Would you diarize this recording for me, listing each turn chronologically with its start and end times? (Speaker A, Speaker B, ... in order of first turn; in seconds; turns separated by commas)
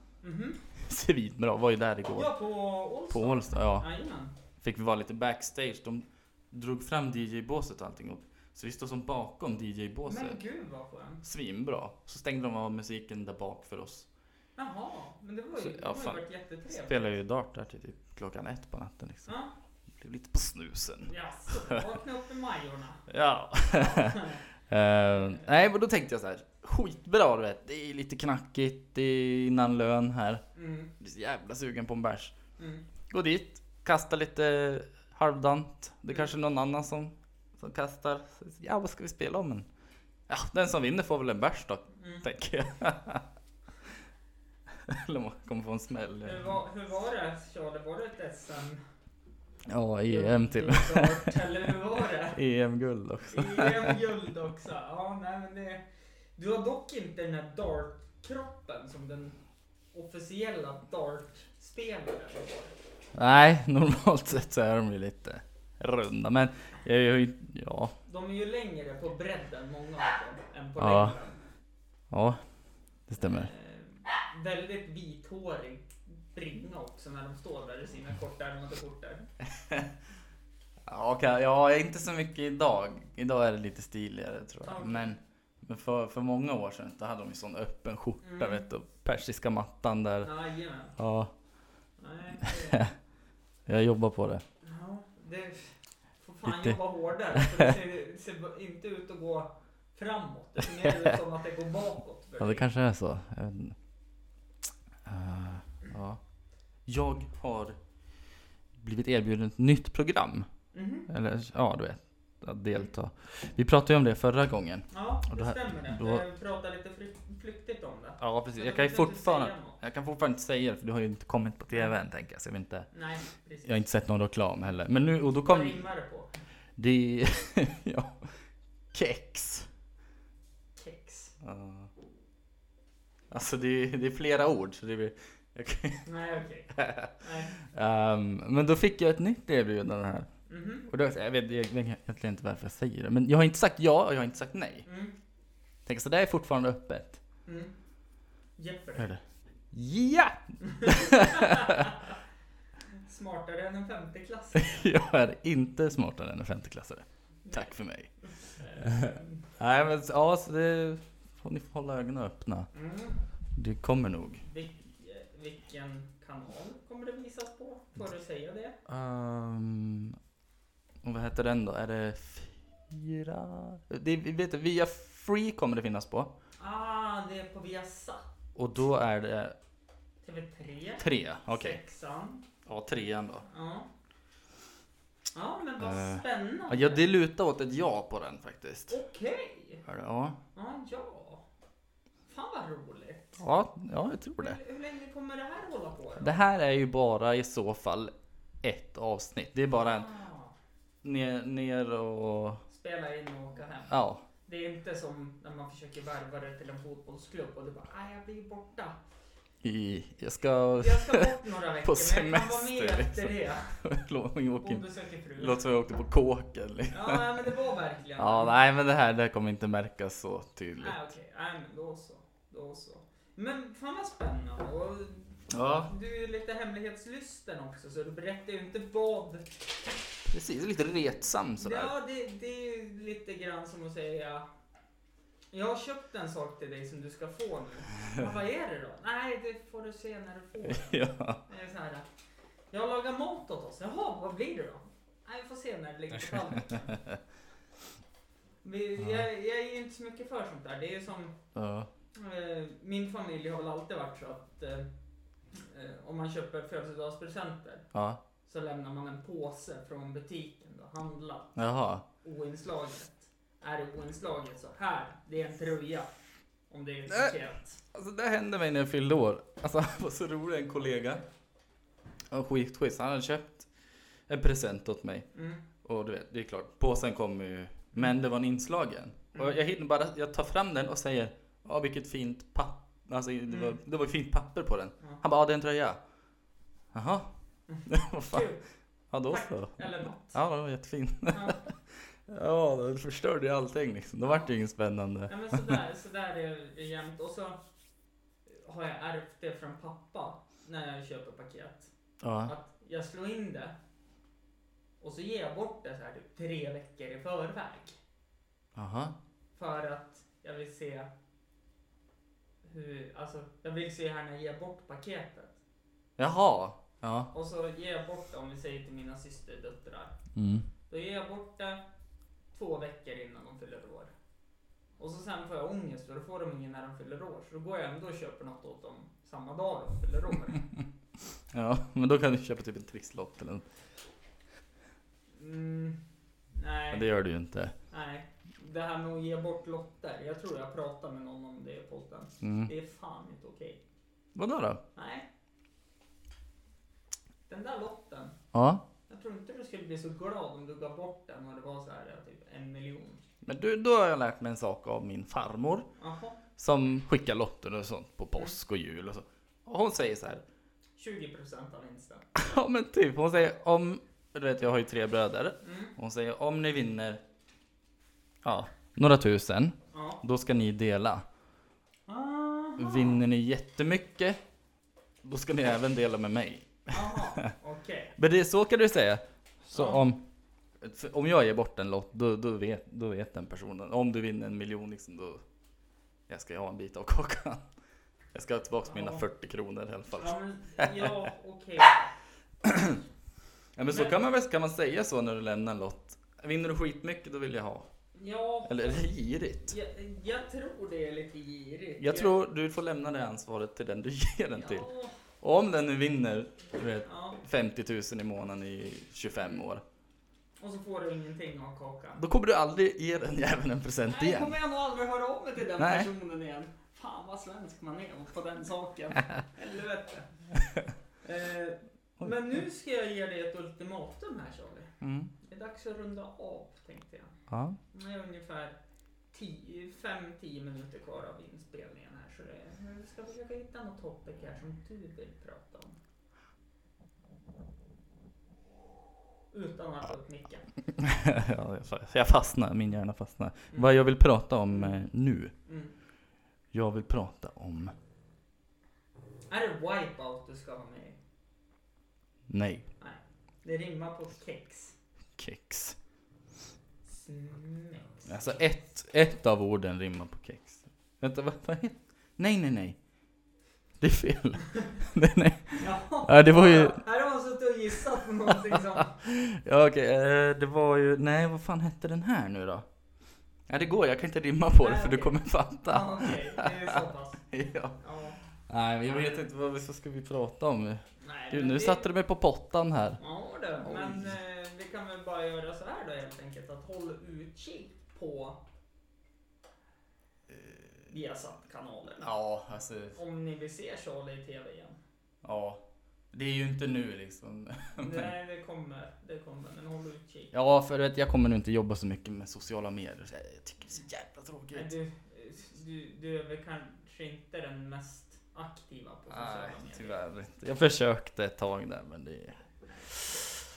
Speaker A: 0.2-0.6, Speaker B: 0.8-2.3, Speaker A: 2.1-4.3, Speaker B: 3.1-3.9, Speaker B: 4.6-10.4, Speaker A: 10.1-11.2, Speaker B: 11.2-14.1, Speaker A: 14.6-17.1, Speaker B: 15.6-19.3, Speaker A: 19.3-19.5, Speaker B: 20.0-21.8, Speaker A: 21.1-23.1, Speaker B: 23.1-30.4, Speaker A: 23.7-24.4, Speaker A: 30.6-30.9, Speaker B: 31.0-32.3, Speaker A: 32.6-32.9, Speaker B: 33.1-39.7, Speaker B: 40.3-43.2, Speaker A: 42.0-42.2, Speaker B: 44.9-46.5, Speaker A: 46.2-48.8, Speaker B: 49.7-51.4, Speaker A: 50.1-52.4, Speaker B: 52.3-54.1, Speaker A: 53.3-55.8, Speaker A: 56.4-59.4, Speaker A: 59.9-62.7, Speaker B: 63.1-68.0, Speaker A: 68.1-71.4, Speaker B: 70.8-71.2, Speaker B: 72.1-72.4, Speaker B: 73.1-73.5, Speaker A: 73.2-79.3, Speaker B: 79.4-79.9, Speaker B: 80.9-90.3, Speaker A: 84.6-85.2, Speaker A: 88.2-88.7, Speaker A: 90.2-91.0, Speaker B: 91.0-91.3, Speaker A: 92.0-92.8, Speaker B: 92.7-92.9, Speaker B: 93.7-94.4, Speaker A: 94.6-102.7, Speaker B: 96.5-96.8, Speaker B: 97.3-97.7, Speaker B: 102.4-103.8, Speaker B: 105.0-106.2, Speaker B: 106.8-107.8, Speaker B: 108.8-110.5, Speaker A: 110.7-111.1, Speaker B: 111.1-116.2, Speaker A: 114.9-119.8, Speaker B: 118.2-122.9, Speaker A: 121.7-122.0, Speaker A: 122.9-123.8, Speaker B: 123.6-125.8, Speaker A: 125.4-126.3, Speaker B: 126.8-128.3, Speaker B: 128.9-129.7, Speaker A: 130.8-131.3, Speaker B: 131.4-131.9, Speaker B: 133.3-136.1, Speaker A: 136.1-137.6, Speaker B: 136.7-140.3, Speaker A: 140.5-140.9, Speaker B: 140.8-144.9, Speaker A: 144.9-145.1, Speaker B: 145.9-147.2, Speaker A: 147.5-147.7, Speaker A: 148.6-149.1, Speaker B: 149.7-151.9, Speaker A: 150.6-152.1, Speaker A: 152.9-154.9, Speaker B: 154.6-158.1, Speaker A: 157.5-159.5, Speaker B: 158.8-162.7, Speaker A: 162.7-163.2, Speaker B: 163.6-164.4, Speaker A: 164.4-168.8, Speaker B: 168.9-170.2, Speaker B: 171.0-176.3, Speaker A: 176.6-178.3, Speaker B: 178.6-179.6, Speaker A: 180.2-182.4, Speaker B: 181.0-181.8, Speaker B: 182.7-183.5, Speaker A: 183.5-183.9, Speaker A: 185.3-187.0, Speaker B: 185.8-188.9, Speaker A: 188.9-189.8, Speaker B: 189.9-190.4, Speaker A: 190.5-191.4, Speaker A: 192.3-193.4, Speaker B: 193.4-194.6, Speaker A: 194.4-196.3, Speaker B: 196.2-200.1, Speaker A: 199.7-200.6, Speaker B: 201.0-202.6, Speaker A: 202.7-209.0, Speaker B: 203.9-204.2, Speaker B: 209.6-211.3, Speaker A: 210.8-213.8, Speaker B: 211.8-217.3, Speaker A: 214.6-215.6, Speaker A: 216.9-218.6, Speaker B: 218.2-221.0, Speaker A: 220.8-229.7, Speaker B: 225.5-225.9, Speaker B: 230.3-231.9, Speaker A: 231.6-234.5, Speaker A: 235.5-242.1, Speaker B: 240.6-241.4, Speaker A: 242.7-247.0, Speaker A: 248.6-251.4, Speaker B: 251.6-251.9, Speaker A: 252.2-254.9, Speaker A: 255.5-257.9, Speaker B: 257.9-258.2, Speaker A: 258.4-261.5, Speaker B: 261.6-262.1, Speaker A: 262.2-266.1, Speaker A: 266.7-267.8, Speaker B: 267.1-267.4, Speaker B: 267.9-271.2, Speaker B: 272.3-273.7, Speaker B: 274.3-275.3, Speaker A: 275.4-275.6, Speaker B: 275.8-286.0, Speaker A: 279.3-279.6, Speaker A: 283.5-283.8, Speaker B: 286.9-287.3, Speaker A: 287.7-288.6, Speaker B: 287.9-288.5, Speaker B: 289.1-295.8, Speaker A: 289.2-290.4, Speaker A: 291.3-291.6, Speaker A: 295.3-297.6, Speaker A: 298.5-301.9, Speaker B: 302.2-302.5, Speaker A: 302.4-303.8, Speaker A: 305.0-308.0, Speaker B: 308.8-309.1, Speaker A: 309.6-311.1, Speaker A: 312.6-315.6, Speaker B: 316.2-317.3, Speaker A: 317.3-320.2, Speaker B: 320.4-320.7, Speaker A: 320.9-321.8, Speaker A: 322.5-324.1, Speaker A: 325.0-330.7, Speaker B: 331.5-333.7, Speaker A: 335.3-336.0, Speaker A: 336.5-337.1, Speaker B: 336.9-337.8, Speaker A: 337.9-343.8, Speaker B: 342.4-342.7, Speaker B: 344.4-344.8, Speaker A: 344.9-345.3, Speaker A: 347.5-348.4, Speaker B: 348.5-348.8, Speaker A: 349.1-353.2, Speaker B: 353.4-355.9, Speaker A: 356.0-356.4, Speaker B: 356.6-360.4, Speaker A: 361.0-362.3, Speaker B: 362.4-367.2, Speaker A: 365.6-365.9, Speaker B: 368.4-371.2, Speaker A: 369.9-370.2, Speaker A: 372.1-373.2, Speaker B: 372.8-374.4, Speaker B: 375.2-377.5, Speaker A: 376.9-378.1, Speaker B: 378.2-380.2, Speaker A: 379.7-380.0, Speaker B: 380.8-385.4, Speaker B: 386.3-387.6, Speaker B: 388.3-391.2, Speaker A: 388.9-389.2, Speaker A: 390.1-392.1, Speaker B: 392.6-393.0, Speaker B: 393.8-397.9, Speaker A: 393.9-394.2, Speaker A: 398.1-399.1, Speaker B: 398.7-399.7, Speaker A: 399.7-402.4, Speaker B: 402.0-404.9, Speaker A: 404.5-405.1, Speaker B: 405.4-409.8, Speaker A: 407.1-407.4, Speaker A: 410.6-412.2, Speaker B: 412.2-414.6, Speaker A: 414.1-420.3, Speaker B: 415.8-416.1, Speaker A: 421.2-424.9, Speaker B: 425.0-425.3, Speaker A: 425.4-427.3, Speaker B: 427.5-427.8, Speaker A: 427.9-428.8, Speaker A: 429.3-436.0, Speaker A: 439.5-440.7, Speaker B: 440.9-445.5, Speaker A: 443.7-444.0, Speaker A: 444.7-445.0, Speaker A: 445.6-445.9, Speaker B: 446.7-447.9, Speaker A: 449.5-451.2, Speaker B: 452.5-452.9, Speaker A: 453.0-454.9, Speaker B: 455.4-456.0, Speaker A: 457.1-458.7, Speaker B: 458.3-463.0, Speaker B: 464.0-467.0, Speaker A: 465.8-469.2, Speaker B: 468.5-472.9, Speaker B: 473.7-477.0, Speaker A: 474.8-478.4, Speaker B: 477.5-478.0, Speaker B: 478.6-483.2, Speaker A: 481.2-482.1, Speaker A: 483.2-488.6, Speaker B: 483.8-484.3, Speaker B: 490.5-490.9, Speaker A: 491.1-492.4, Speaker B: 492.2-493.2, Speaker A: 493.1-495.0, Speaker B: 495.4-498.3, Speaker A: 498.0-500.5, Speaker B: 500.5-504.9, Speaker A: 504.7-510.2, Speaker B: 509.3-512.6, Speaker A: 512.9-513.5